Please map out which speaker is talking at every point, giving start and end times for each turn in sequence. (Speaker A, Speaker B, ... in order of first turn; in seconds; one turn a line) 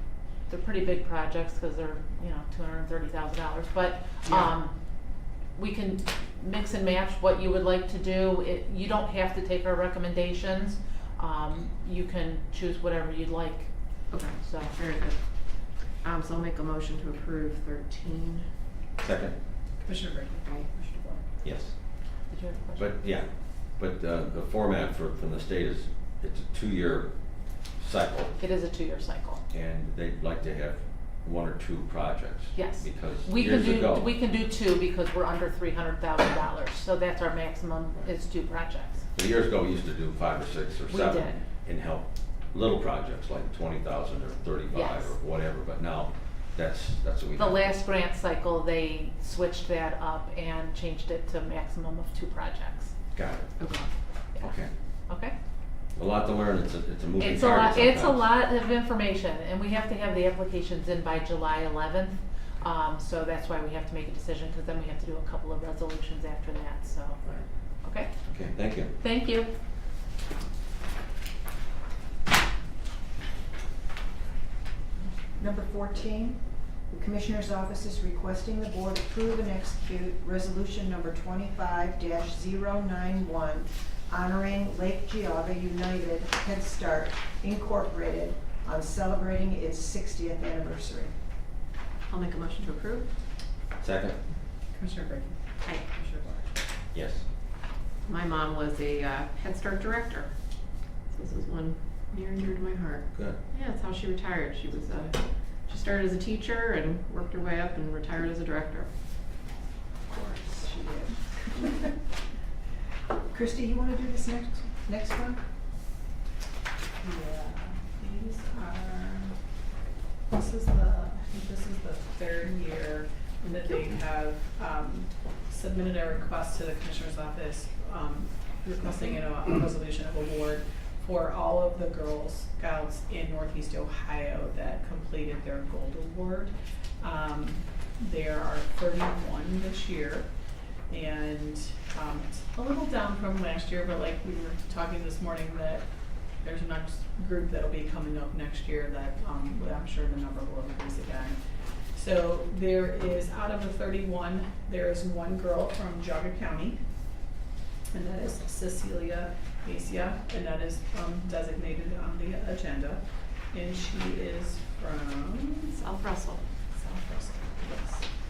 Speaker A: 0.5-4.7
Speaker B: 4.2-4.5
Speaker A: 5.5-13.7
Speaker B: 14.1-15.2
Speaker A: 14.3-14.8
Speaker B: 16.0-18.4
Speaker C: 19.0-19.3
Speaker D: 19.8-21.2
Speaker C: 21.4-21.7
Speaker A: 22.3-22.9
Speaker C: 22.8-28.3
Speaker A: 28.4-29.4
Speaker C: 29.5-34.1
Speaker A: 32.5-39.1
Speaker C: 39.1-47.8
Speaker A: 40.9-41.4
Speaker A: 44.7-45.2
Speaker A: 47.4-52.9
Speaker C: 53.1-53.5
Speaker B: 53.6-53.9
Speaker C: 54.4-54.7
Speaker A: 55.1-55.3
Speaker C: 55.9-58.3
Speaker A: 57.2-67.3
Speaker A: 67.8-68.1
Speaker C: 68.3-68.9
Speaker A: 69.0-69.5
Speaker E: 75.4-91.1
Speaker B: 92.1-93.1
Speaker C: 93.8-94.2
Speaker D: 94.7-96.5
Speaker C: 96.9-97.2
Speaker B: 98.1-100.3
Speaker B: 101.1-108.9
Speaker E: 110.1-111.9
Speaker E: 113.3-115.4
Speaker D: 117.0-119.3
Speaker D: 120.3-140.3
Speaker D: 140.9-145.8
Speaker D: 146.4-151.4
Speaker D: 151.9-156.8
Speaker D: 157.9-165.9
Speaker B: 165.7-166.4
Speaker D: 166.7-168.0